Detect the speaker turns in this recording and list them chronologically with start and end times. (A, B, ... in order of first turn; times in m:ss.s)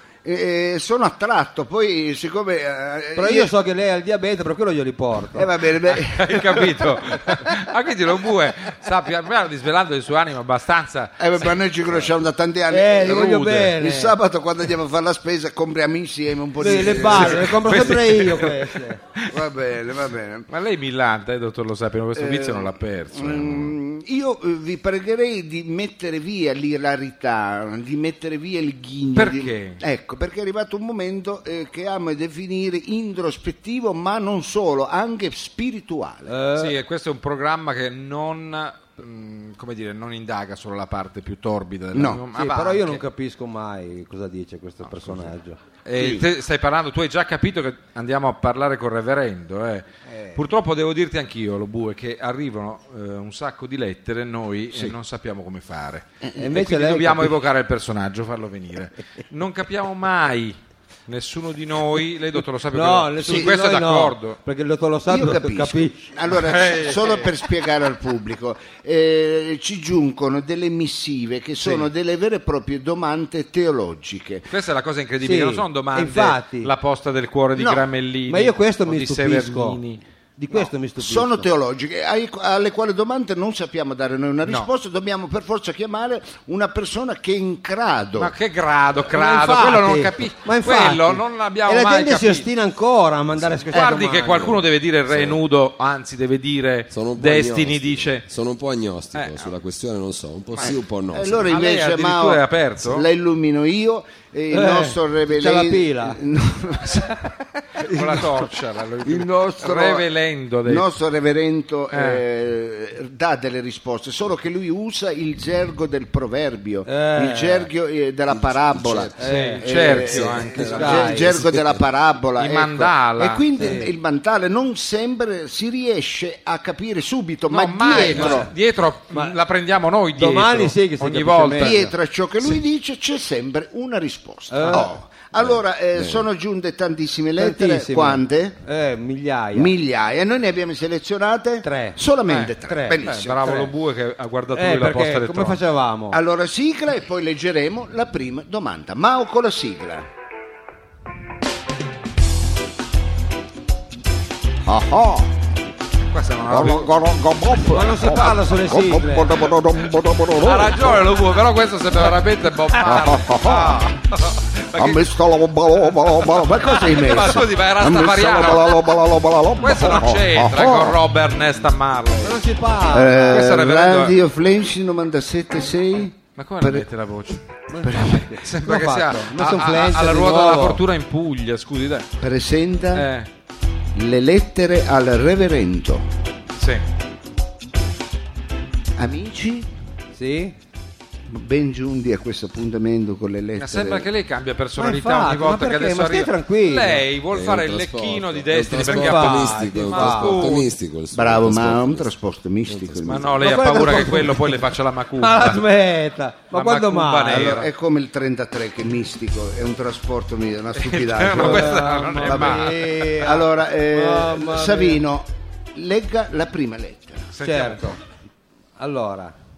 0:00.2-0:03.5 A
0:03.1-0:05.5 B
0:05.3-0:06.8 A
0:05.9-0:11.6 C
0:11.2-0:18.0 A
0:12.7-0:14.2 B
0:13.1-0:13.7 C
0:16.6-0:19.0 B
0:16.9-0:19.3 C
0:19.3-0:20.5 A
0:20.5-0:23.7 C
0:22.1-0:36.3 A
0:29.1-0:29.8 C
0:36.3-0:36.8 B
0:36.6-0:43.0 C
0:41.9-0:42.2 A
0:42.3-0:45.6 B
0:44.8-0:45.3 C
0:45.8-1:04.4 C
0:45.9-0:46.2 A
0:50.1-0:50.4 A
0:56.4-0:57.4 B
1:02.7-1:06.1 B
1:03.2-1:03.5 A
1:05.1-1:14.5 A
1:06.3-1:07.3 C
1:14.5-1:20.0 C
1:15.2-1:16.7 B
1:17.6-1:17.8 A
1:18.3-1:19.8 B
1:20.4-1:21.5 B
1:21.0-1:28.3 A
1:28.2-1:32.5 C
1:29.1-1:34.6 B
1:33.7-1:38.2 C
1:35.1-1:35.4 D
1:36.9-1:41.5 D
1:39.1-1:39.5 C
1:40.6-1:48.4 A
1:41.5-1:43.1 C
1:44.5-1:46.2 B
1:47.8-1:50.8 C
1:49.0-1:50.1 A
1:50.6-2:08.5 A
1:51.9-1:52.2 C
1:56.8-1:57.7 B
1:58.3-1:59.2 D
1:59.2-1:59.7 B
1:59.2-2:01.1 C
2:00.0-2:01.8 D
2:00.6-2:01.3 B
2:02.4-2:03.4 C
2:03.6-2:03.9 B
2:07.5-2:11.9 C
2:07.9-2:08.5 B
2:10.1-2:11.8 B
2:11.6-2:18.6 A
2:14.5-2:14.9 B
2:15.4-2:16.2 D
2:17.4-2:19.7 B
2:19.5-2:23.4 A
2:21.6-2:22.0 B
2:22.3-2:25.6 C
2:22.6-2:23.7 B
2:24.5-2:26.2 B
2:26.1-2:30.1 A
2:34.6-2:35.4 A
2:36.1-2:36.9 C
2:36.5-2:41.0 A
2:37.7-2:39.5 B
2:40.4-2:45.1 C
2:42.8-2:43.8 A
2:44.8-2:51.0 A
2:45.7-2:49.0 C
2:49.6-2:52.4 C
2:52.2-2:53.4 B
2:52.9-2:56.9 A
2:53.3-2:54.2 C
2:56.4-2:57.4 C
2:57.7-3:00.8 B
2:57.8-2:58.3 A
2:58.0-3:02.1 C
3:02.2-3:03.1 A
3:02.9-3:03.3 C
3:03.9-3:06.1 A
3:06.6-3:06.8 C
3:09.0-3:09.7 A
3:10.1-3:10.5 B
3:11.3-3:14.1 A
3:13.6-3:20.7 C
3:14.8-3:17.0 B
3:17.3-3:22.1 D
3:18.8-3:20.5 B
3:21.1-3:23.4 A
3:22.7-3:23.4 D
3:23.0-3:25.6 C
3:23.4-3:24.6 B
3:25.2-3:27.6 B
3:26.5-3:27.7 C
3:27.3-3:37.3 A
3:30.7-3:33.0 C
3:31.3-3:35.0 B
3:37.3-3:37.9 C
3:37.4-3:38.0 B
3:38.8-3:39.3 B